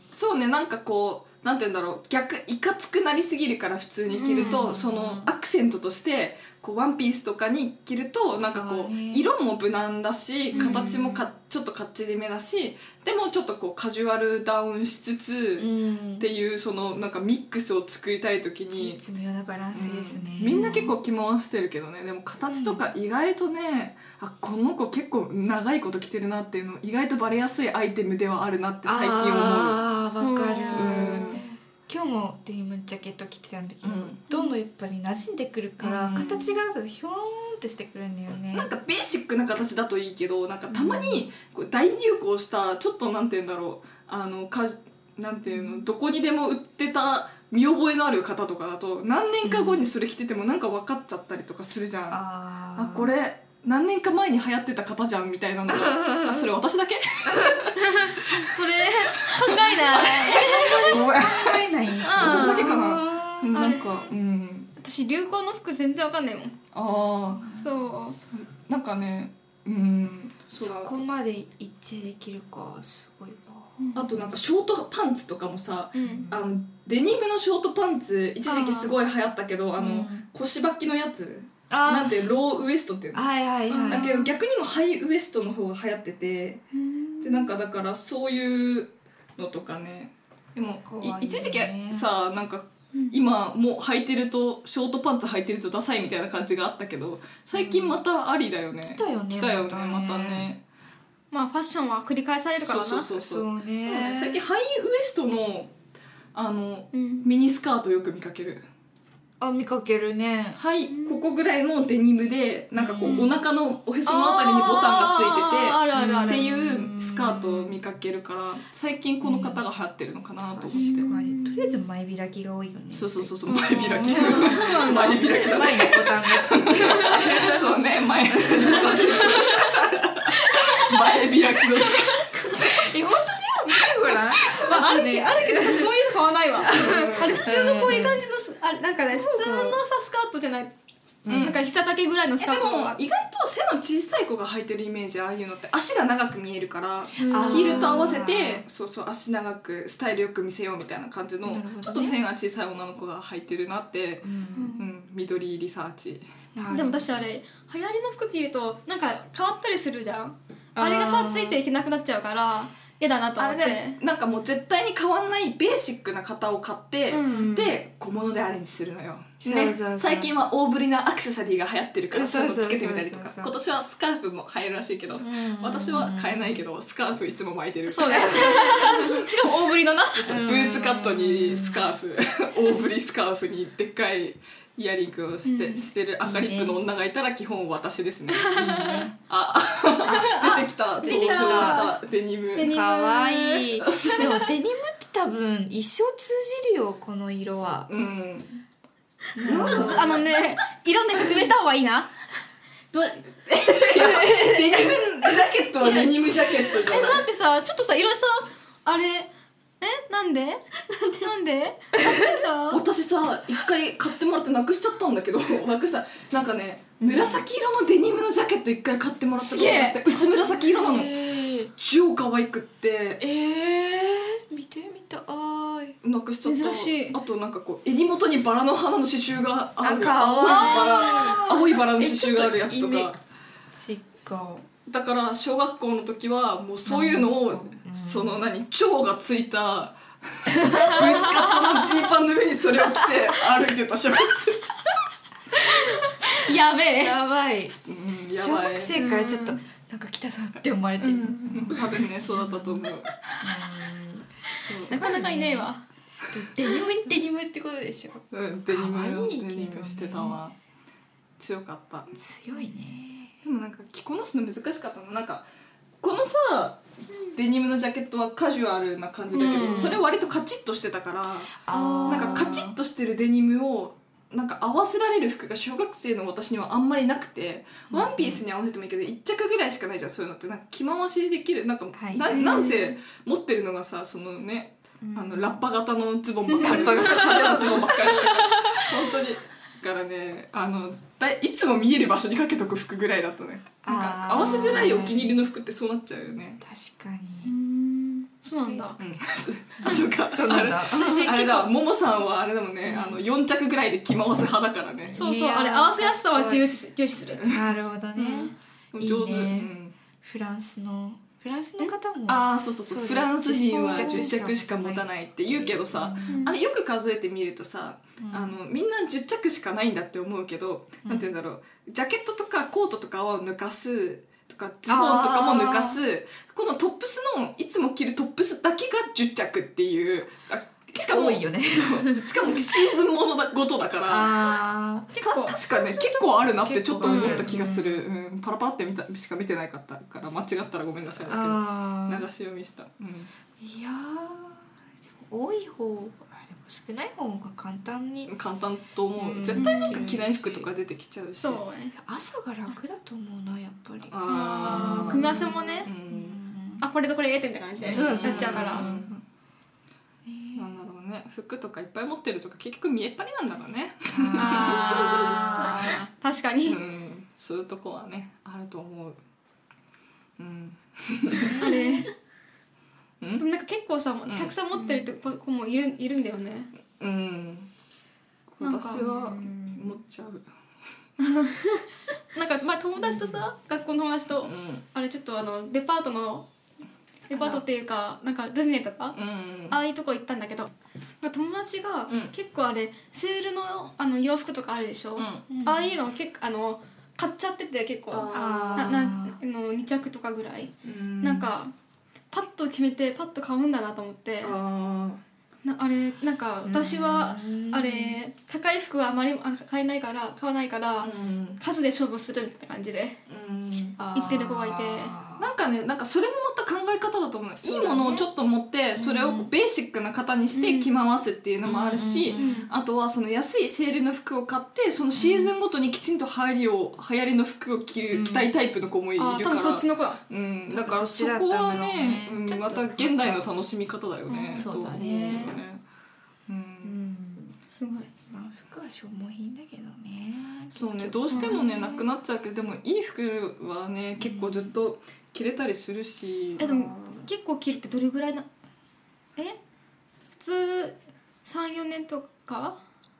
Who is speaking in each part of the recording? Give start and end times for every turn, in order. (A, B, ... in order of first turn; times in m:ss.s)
0:00.1-0:19.0 A
0:04.1-0:04.7 B
0:04.3-0:05.3 C
0:08.4-0:09.3 C
0:10.5-0:10.9 B
0:10.5-0:11.3 C
0:15.6-0:16.3 C
0:18.7-0:20.9 C
0:19.7-0:29.8 A
0:20.5-0:20.9 B
0:22.5-0:22.8 C
0:28.8-0:38.7 C
0:30.2-0:31.4 B
0:30.7-0:31.4 A
0:33.8-0:34.2 A
0:35.8-0:36.5 A
0:38.5-0:52.2 A
0:40.7-0:41.3 C
0:45.5-0:45.9 C
0:49.4-0:49.9 C
0:52.1-0:53.1 C
0:52.8-0:58.5 A
0:55.7-0:56.5 C
0:57.2-0:57.7 C
0:57.8-1:01.0 B
0:59.2-1:04.7 A
1:00.4-1:03.6 C
1:02.0-1:02.9 B
1:03.5-1:04.1 B
1:04.8-1:06.6 B
1:06.7-1:07.5 A
1:07.4-1:07.8 C
1:07.6-1:08.2 B
1:08.1-1:11.0 A
1:10.6-1:13.8 C
1:13.8-1:14.1 B
1:14.0-1:23.3 A
1:16.0-1:16.3 B
1:16.0-1:16.5 C
1:18.5-1:18.9 B
1:19.8-1:20.2 C
1:21.7-1:22.3 C
1:23.1-1:24.1 C
1:23.7-1:24.3 B
1:23.8-1:26.6 A
1:26.7-1:27.5 B
1:27.2-1:40.6 A
1:30.8-1:32.1 C
1:37.5-1:38.0 C
1:38.8-1:40.5 C
1:41.3-1:43.1 B
1:42.6-1:45.7 A
1:43.1-1:44.4 C
1:46.3-1:48.6 A
1:46.9-1:47.3 B
1:49.4-1:50.6 C
1:50.6-2:01.1 A
1:50.9-1:51.3 B
1:52.8-1:53.4 C
1:54.1-1:56.5 B
1:55.9-1:57.8 C
1:59.2-1:59.6 C
2:00.5-2:09.7 C
2:00.7-2:01.8 B
2:02.9-2:12.8 A
2:03.5-2:05.2 B
2:06.7-2:07.5 B
2:08.6-2:09.6 B
2:10.3-2:12.6 B
2:12.5-2:16.0 C
2:14.1-2:14.8 A
2:14.6-2:20.7 B
2:16.6-2:18.2 C
2:16.6-2:17.4 A
2:19.1-2:19.8 C
2:21.2-2:21.6 C
2:21.3-2:21.6 A
2:21.3-2:23.0 B
2:22.4-2:36.2 A
2:27.2-2:28.2 B
2:27.2-2:28.6 C
2:31.4-2:32.2 C
2:34.2-2:34.8 C
2:34.6-2:34.8 B
2:36.6-2:37.1 C
2:36.7-2:44.0 B
2:40.8-2:41.6 C
2:43.4-2:59.5 A
2:47.1-2:47.5 B
2:47.3-2:47.8 C
2:49.4-2:50.5 C
2:52.1-2:53.5 C
2:55.2-2:56.6 C
2:57.9-3:00.4 B
2:58.2-2:58.9 C
3:00.1-3:08.6 A
3:00.3-3:01.9 C
3:05.4-3:05.9 B
3:06.2-3:06.8 C
3:08.3-3:09.1 B
3:08.6-3:09.2 C
3:09.3-3:12.7 A
3:10.1-3:12.0 B
3:10.1-3:10.5 C
3:11.0-3:11.9 C
3:12.6-3:14.4 B
3:12.6-3:17.9 C
3:17.9-3:18.5 A
3:19.4-3:20.2 C
3:19.4-3:20.3 A
3:19.4-3:22.1 B
3:22.9-3:23.2 B
3:23.4-3:27.2 A
3:24.0-3:24.8 C
3:25.8-3:29.3 B
3:29.8-3:32.8 B
3:32.7-3:41.2 A
3:37.0-3:37.4 C
3:39.4-3:40.2 B
3:40.5-3:41.7 C
3:41.8-3:43.2 A
3:43.2-3:46.0 C
3:46.0-3:53.2 A
3:46.4-3:47.2 B
3:49.8-3:53.1 C
3:50.4-3:51.6 B
3:53.7-3:54.7 C
3:54.9-4:04.9 A
3:56.9-3:58.5 C
4:00.6-4:01.9 B
4:00.7-4:01.1 C
4:05.5-4:07.2 B
4:06.9-4:07.7 C
4:07.7-4:08.9 A
4:08.3-4:15.7 C
4:09.0-4:09.6 B
4:11.0-4:11.8 B
4:11.6-4:13.2 A
4:14.8-4:15.8 B
4:16.3-4:20.4 C
4:18.3-4:20.6 A
4:21.4-4:22.1 A
4:22.1-4:23.4 C
4:23.4-4:25.5 A
4:26.0-4:56.6 A
4:29.3-4:30.0 B
4:29.3-4:30.0 C
4:31.7-4:32.8 C
4:31.7-4:32.6 B
4:37.9-4:38.4 C
4:42.0-4:42.5 C
4:42.3-4:43.0 B
4:45.0-4:45.6 C
4:46.5-4:48.9 B
4:46.6-4:48.1 C
4:53.8-4:55.4 C
4:56.6-4:57.5 C
4:57.4-4:59.0 B
4:58.5-4:59.0 C
4:59.0-5:05.2 A
4:59.8-5:01.3 C
5:00.9-5:01.7 B
5:02.8-5:03.2 C
5:05.1-5:06.7 C
5:05.2-5:07.5 B
5:07.4-5:16.5 C
5:08.2-5:08.5 B
5:08.9-5:09.9 A
5:12.3-5:34.5 A
5:13.8-5:14.3 B
5:16.3-5:16.6 B
5:18.2-5:18.6 C
5:21.0-5:21.3 C
5:24.9-5:26.0 C
5:31.0-5:32.7 C
5:34.1-5:35.1 C
5:35.1-5:35.6 B
5:35.2-5:43.3 A
5:35.6-5:38.1 C
5:37.0-5:37.5 B
5:41.2-5:42.3 C
5:43.6-5:48.3 C
5:48.3-5:51.6 A
5:49.2-5:50.7 C
5:49.6-5:50.1 B
5:51.4-5:52.0 B
5:51.9-5:56.8 C
5:54.1-5:56.4 A
5:54.3-5:55.9 B
5:56.8-5:58.9 B
5:57.8-5:59.2 C
5:57.8-5:59.2 A
6:00.2-6:00.8 C
6:00.6-6:05.8 A
6:04.1-6:06.0 C
6:04.4-6:06.8 B
6:06.7-6:09.2 A
6:10.4-6:11.6 A
6:11.3-6:12.0 C
6:11.6-6:12.1 B
6:13.4-6:16.7 B
6:14.3-6:14.5 A
6:17.0-6:17.7 A
6:18.5-6:20.4 A
6:18.6-6:19.1 B
6:18.9-6:20.0 C
6:21.2-6:26.5 B
6:23.0-6:23.4 C
6:24.4-6:24.8 A
6:27.3-6:29.2 B
6:27.3-6:27.6 C
6:29.1-6:29.8 A
6:29.7-6:30.7 B
6:31.2-6:41.7 B
6:32.1-6:32.3 A
6:35.2-6:35.4 A
6:35.5-6:36.0 C
6:38.1-6:39.1 A
6:38.3-6:39.4 C
6:40.8-6:41.5 A
6:42.3-6:44.6 B
6:44.4-6:45.2 A
6:45.6-6:53.2 B
6:46.6-6:48.2 C
6:51.0-6:51.6 A
6:53.3-6:54.0 A
6:54.0-6:55.5 C
6:54.1-6:55.2 B
6:55.4-7:15.8 A
6:57.6-6:58.3 C
6:59.0-6:59.5 C
7:00.6-7:00.9 B
7:01.6-7:02.6 C
7:02.3-7:02.7 B
7:05.2-7:05.5 C
7:08.1-7:08.5 C
7:09.2-7:10.2 B
7:10.7-7:13.5 C
7:14.3-7:14.6 B
7:14.5-7:15.6 C
7:16.5-7:17.0 A
7:16.8-7:17.6 C
7:17.7-7:18.1 B
7:18.3-7:22.1 C
7:20.7-7:26.9 A
7:21.3-7:21.6 B
7:24.2-7:24.8 C
7:26.6-7:28.5 B
7:26.8-7:27.3 C
7:30.3-7:32.8 B